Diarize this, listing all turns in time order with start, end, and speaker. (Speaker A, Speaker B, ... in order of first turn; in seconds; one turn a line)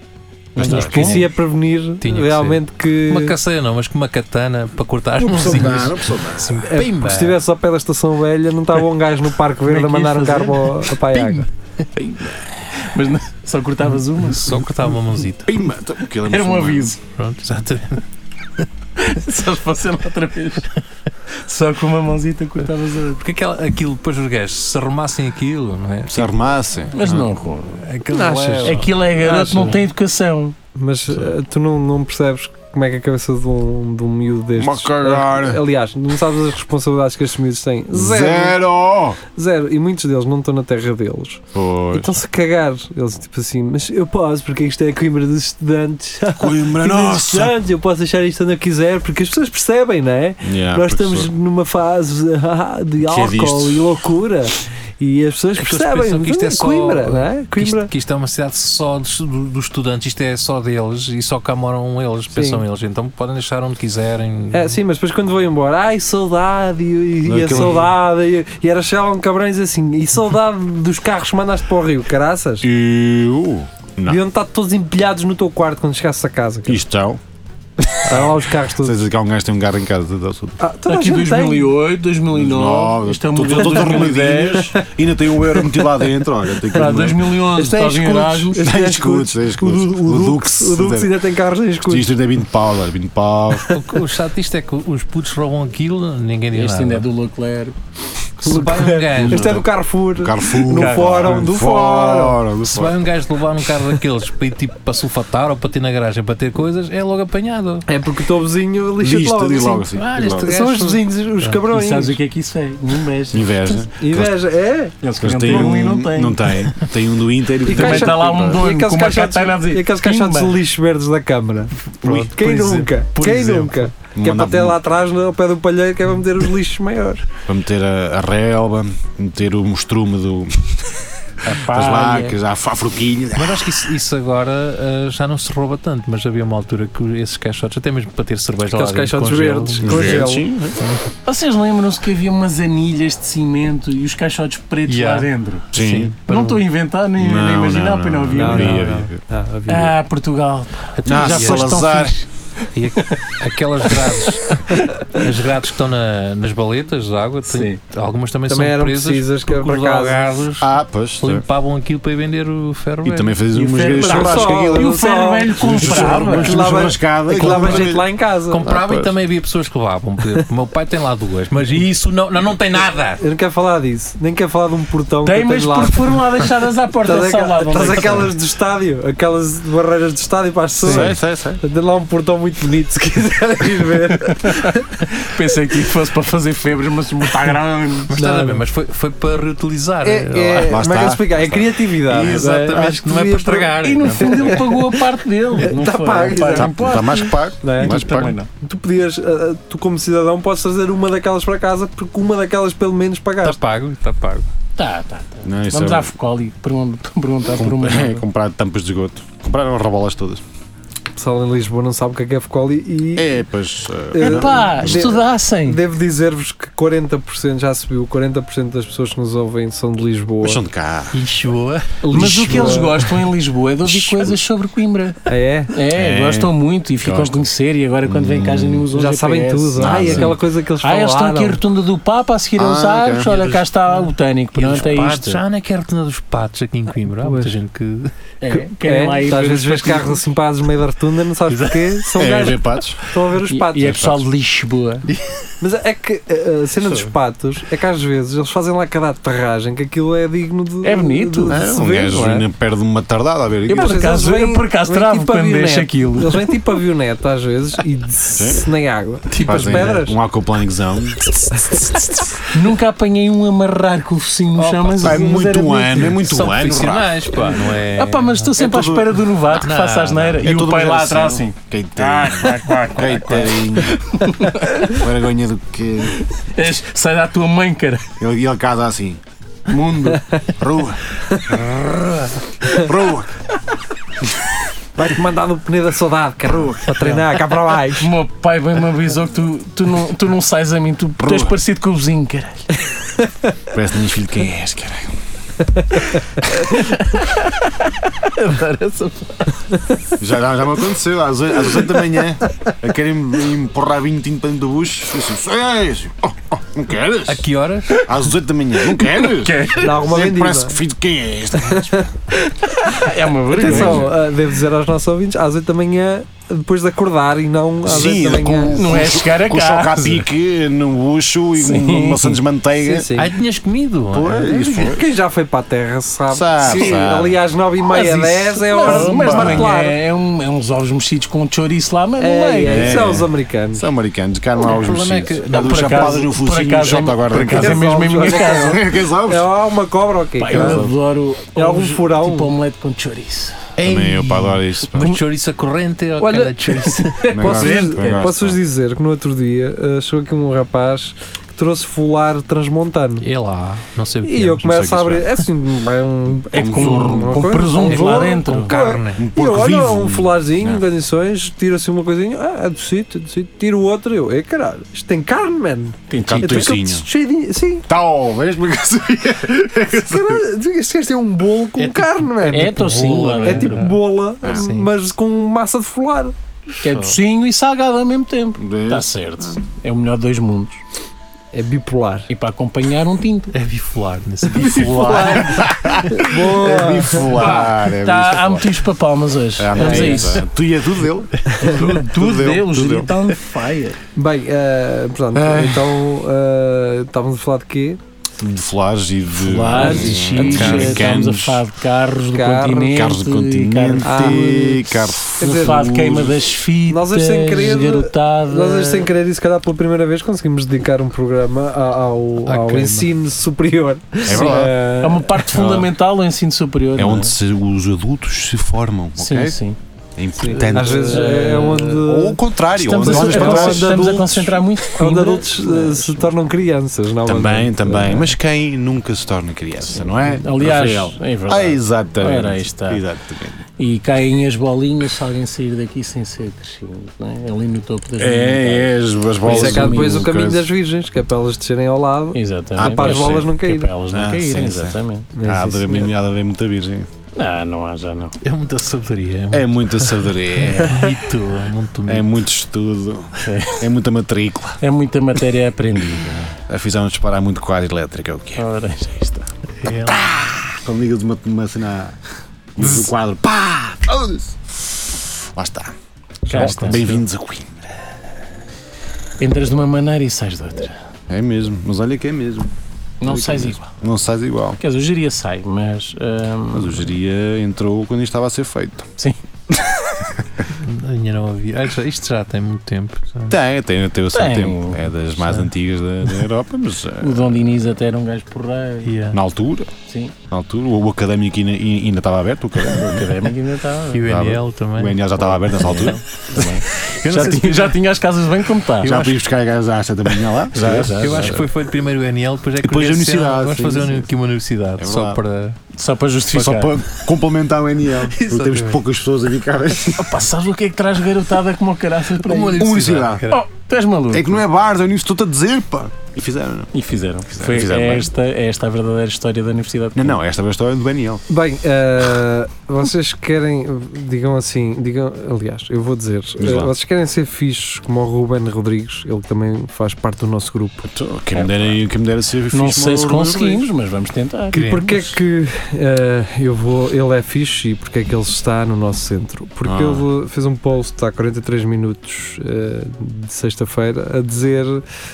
Speaker A: 0.6-1.3
Speaker B: 0.6-1.2
Speaker C: 0.6-3.4
Speaker D: 0.7-1.2
Speaker D: 2.0-7.4
Speaker A: 5.2-6.6
Speaker C: 6.6-11.5
Speaker B: 9.7-10.8
Speaker D: 11.1-11.5
Speaker A: 12.0-12.3
Speaker B: 12.0-15.0
Speaker D: 14.2-15.5
Speaker A: 15.4-16.9
Speaker B: 16.2-17.0
Speaker D: 17.1-18.1
Speaker B: 19.0-20.7
Speaker B: 21.4-23.2
Speaker D: 23.2-26.3
Speaker A: 26.1-27.3
Speaker B: 26.9-27.9
Speaker D: 27.8-28.9
Speaker C: 28.1-29.8
Speaker B: 28.6-30.6
Speaker D: 29.4-29.8
Speaker C: 30.8-38.6
Speaker A: 34.6-35.6
Speaker A: 37.9-39.2
Speaker C: 39.4-41.4
Speaker A: 41.5-42.2
Speaker C: 41.9-57.9
Speaker A: 46.4-47.6
Speaker A: 50.4-51.3
Speaker A: 53.0-54.0
Speaker D: 55.6-64.8
Speaker C: 62.3-62.6
Speaker C: 64.5-72.7
Speaker A: 67.2-67.9
Speaker D: 67.5-67.8
Speaker A: 72.6-74.2
Speaker C: 74.0-76.8
Speaker A: 76.7-77.2
Speaker C: 78.0-79.0
Speaker A: 78.1-80.6
Speaker C: 80.6-81.7
Speaker B: 80.9-84.8
Speaker A: 82.3-87.4
Speaker B: 86.7-88.6
Speaker C: 87.5-92.2
Speaker A: 88.5-91.2
Speaker A: 91.8-93.7
Speaker D: 93.7-97.1
Speaker B: 96.5-97.8
Speaker D: 98.4-99.7
Speaker C: 98.4-102.4
Speaker A: 99.2-103.0
Speaker B: 100.7-101.4
Speaker D: 102.7-107.9
Speaker C: 107.9-112.2
Speaker A: 109.0-110.5
Speaker D: 110.0-111.6
Speaker B: 111.7-113.8
Speaker A: 113.3-114.4
Speaker C: 114.0-115.7
Speaker B: 115.0-116.6
Speaker A: 115.2-118.6
Speaker C: 117.7-127.3
Speaker B: 117.7-120.6
Speaker D: 122.0-123.8
Speaker A: 124.2-124.8
Speaker A: 127.5-133.7
Speaker B: 131.5-132.4
Speaker D: 133.3-140.3
Speaker C: 138.7-140.5
Speaker A: 139.8-140.8
Speaker B: 141.2-145.7
Speaker D: 144.9-146.6
Speaker A: 145.7-146.2
Speaker B: 146.3-148.9
Speaker A: 147.2-149.2
Speaker C: 148.4-149.9
Speaker B: 149.7-152.3
Speaker D: 151.0-151.8
Speaker A: 151.1-152.2
Speaker D: 152.7-160.7
Speaker B: 153.0-153.2
Speaker B: 153.9-154.6
Speaker B: 157.5-157.8
Speaker C: 158.5-160.3
Speaker A: 160.6-161.4
Speaker D: 161.2-163.4
Speaker A: 163.0-165.0
Speaker B: 163.7-166.7
Speaker C: 163.7-168.7
Speaker A: 165.6-168.1
Speaker D: 167.4-167.9
Speaker D: 168.5-173.2
Speaker A: 168.6-169.2
Speaker C: 173.2-176.2
Speaker B: 175.2-178.3
Speaker C: 177.1-184.9
Speaker A: 180.8-181.6
Speaker B: 185.2-188.1
Speaker D: 188.1-190.8
Speaker C: 188.1-188.6
Speaker C: 190.0-195.0
Speaker A: 190.6-192.4
Speaker D: 192.1-194.7
Speaker B: 193.8-198.5
Speaker C: 195.6-196.9
Speaker A: 196.5-198.4
Speaker C: 197.6-203.6
Speaker D: 203.4-204.5
Speaker B: 204.8-208.2
Speaker A: 205.4-206.1
Speaker A: 207.6-210.4
Speaker C: 211.2-213.4
Speaker A: 213.2-215.2
Speaker C: 214.1-220.6
Speaker B: 214.2-215.8
Speaker A: 220.4-221.2
Speaker D: 221.1-223.1
Speaker B: 222.0-235.4
Speaker A: 222.1-222.8
Speaker C: 222.2-222.9
Speaker A: 223.9-224.4
Speaker C: 225.3-225.7
Speaker A: 225.9-227.4
Speaker A: 228.1-228.9
Speaker C: 228.9-231.6
Speaker A: 229.8-230.4
Speaker A: 232.6-233.3
Speaker D: 233.2-238.1
Speaker C: 237.1-237.5
Speaker B: 238.4-240.2
Speaker C: 238.5-244.1
Speaker D: 241.5-241.9
Speaker A: 242.2-243.0
Speaker B: 243.5-245.1
Speaker A: 243.8-244.2
Speaker D: 245.1-245.3
Speaker C: 245.6-252.5
Speaker B: 250.8-251.6
Speaker A: 251.5-254.2
Speaker B: 253.7-256.6
Speaker C: 253.7-260.2
Speaker A: 258.4-258.7
Speaker D: 259.3-260.0
Speaker A: 259.4-261.3
Speaker C: 261.5-262.2
Speaker B: 262.5-266.4
Speaker D: 264.6-265.2
Speaker A: 265.0-267.5
Speaker D: 266.2-268.5
Speaker B: 267.3-275.0
Speaker A: 268.6-269.6
Speaker D: 269.6-270.4
Speaker A: 270.4-274.2
Speaker A: 274.8-276.2
Speaker B: 276.2-278.1
Speaker A: 278.2-283.3
Speaker C: 285.0-288.1
Speaker B: 288.0-292.7
Speaker A: 291.2-291.6
Speaker A: 293.7-295.1
Speaker C: 295.7-296.8
Speaker B: 296.6-297.6
Speaker B: 298.3-299.6
Speaker A: 300.2-307.5
Speaker D: 307.3-308.1
Speaker A: 308.0-312.1
Speaker B: 308.8-310.0
Speaker C: 309.8-310.8
Speaker C: 311.7-318.8
Speaker B: 312.9-314.1
Speaker A: 313.6-314.1
Speaker A: 317.8-323.1
Speaker B: 318.7-320.3
Speaker B: 321.6-322.4
Speaker C: 322.8-323.4
Speaker D: 323.2-324.5
Speaker A: 324.1-325.0
Speaker C: 324.4-330.0
Speaker A: 326.3-327.4
Speaker B: 326.7-327.0
Speaker B: 327.9-333.2
Speaker A: 328.9-329.7
Speaker C: 332.2-333.9
Speaker A: 332.7-339.5
Speaker D: 334.6-336.3
Speaker B: 335.5-338.9
Speaker C: 337.6-340.9
Speaker B: 340.4-343.7
Speaker A: 340.5-340.9
Speaker C: 341.6-342.5
Speaker D: 343.8-347.4
Speaker A: 343.8-345.2
Speaker C: 346.2-353.2
Speaker A: 347.3-348.6
Speaker B: 347.4-348.2
Speaker D: 353.2-355.0
Speaker C: 354.2-367.9
Speaker A: 354.7-355.2
Speaker A: 356.5-357.5
Speaker B: 356.5-358.7
Speaker D: 357.9-359.3
Speaker A: 359.1-360.8
Speaker B: 366.1-366.7
Speaker A: 366.2-367.1
Speaker A: 367.9-370.4
Speaker C: 369.9-376.3
Speaker D: 371.8-374.9
Speaker B: 372.5-373.9
Speaker B: 376.8-380.8
Speaker A: 378.6-379.6
Speaker C: 381.5-382.3
Speaker B: 382.3-383.5
Speaker D: 383.5-385.6
Speaker B: 384.5-385.4
Speaker A: 384.6-388.8
Speaker C: 385.0-387.3
Speaker B: 387.3-390.4
Speaker A: 389.6-393.1
Speaker C: 389.8-390.2
Speaker B: 391.6-394.0
Speaker C: 394.1-398.0
Speaker A: 398.4-401.7
Speaker B: 399.4-404.4
Speaker C: 399.8-401.0
Speaker D: 400.4-401.1
Speaker C: 402.3-403.0
Speaker A: 402.9-406.4
Speaker C: 404.0-405.9
Speaker B: 405.4-409.1
Speaker C: 406.9-415.4
Speaker D: 412.5-413.1
Speaker A: 414.2-414.8
Speaker B: 414.5-417.3
Speaker A: 415.5-415.9
Speaker A: 417.0-419.6
Speaker B: 419.2-419.8
Speaker A: 420.2-424.2
Speaker C: 420.4-428.3
Speaker B: 420.6-422.0
Speaker B: 422.8-426.3
Speaker A: 427.3-433.7
Speaker B: 430.0-433.0
Speaker B: 433.8-440.3
Speaker A: 438.2-440.7
Speaker C: 439.5-443.9
Speaker B: 442.3-445.3
Speaker A: 442.8-443.6
Speaker A: 444.1-447.1
Speaker C: 445.4-446.0
Speaker B: 447.4-448.4
Speaker D: 448.4-452.3
Speaker A: 449.5-451.1
Speaker A: 452.1-454.8
Speaker B: 453.4-453.9
Speaker B: 454.8-456.5
Speaker A: 456.2-458.7
Speaker B: 458.6-459.5
Speaker D: 459.8-460.3
Speaker A: 459.9-462.2
Speaker A: 462.8-465.9
Speaker B: 466.5-467.1
Speaker D: 466.5-467.2
Speaker A: 466.5-467.8
Speaker B: 469.4-470.9
Speaker A: 471.3-472.7
Speaker B: 473.2-473.9
Speaker A: 473.2-474.8
Speaker B: 474.8-477.1
Speaker A: 476.7-479.1
Speaker D: 480.7-483.6
Speaker A: 483.5-487.6
Speaker B: 484.3-485.1
Speaker D: 485.4-485.7
Speaker B: 487.2-489.2
Speaker D: 489.1-489.4
Speaker A: 489.3-489.9
Speaker B: 490.1-490.3
Speaker A: 490.5-493.4
Speaker B: 492.9-494.3
Speaker D: 494.1-495.2
Speaker A: 494.2-496.8
Speaker B: 495.5-499.3
Speaker D: 497.2-498.0
Speaker A: 499.0-501.7
Speaker D: 499.1-499.3
Speaker B: 500.7-501.7
Speaker D: 501.0-505.8
Speaker A: 502.8-504.3
Speaker A: 505.0-505.4
Speaker B: 505.9-507.0
Speaker A: 506.5-510.4
Speaker D: 508.3-509.0
Speaker B: 510.2-512.9
Speaker D: 512.4-513.6
Speaker A: 512.7-513.4
Speaker B: 513.5-514.6
Speaker A: 514.3-516.9
Speaker B: 516.9-520.4
Speaker A: 517.5-518.3
Speaker A: 520.1-521.4
Speaker C: 521.5-531.1
Speaker A: 526.6-526.9
Speaker A: 531.0-533.9
Speaker B: 531.5-532.0
Speaker B: 532.7-534.8
Speaker C: 534.7-545.0
Speaker D: 534.7-535.4
Speaker A: 539.8-540.3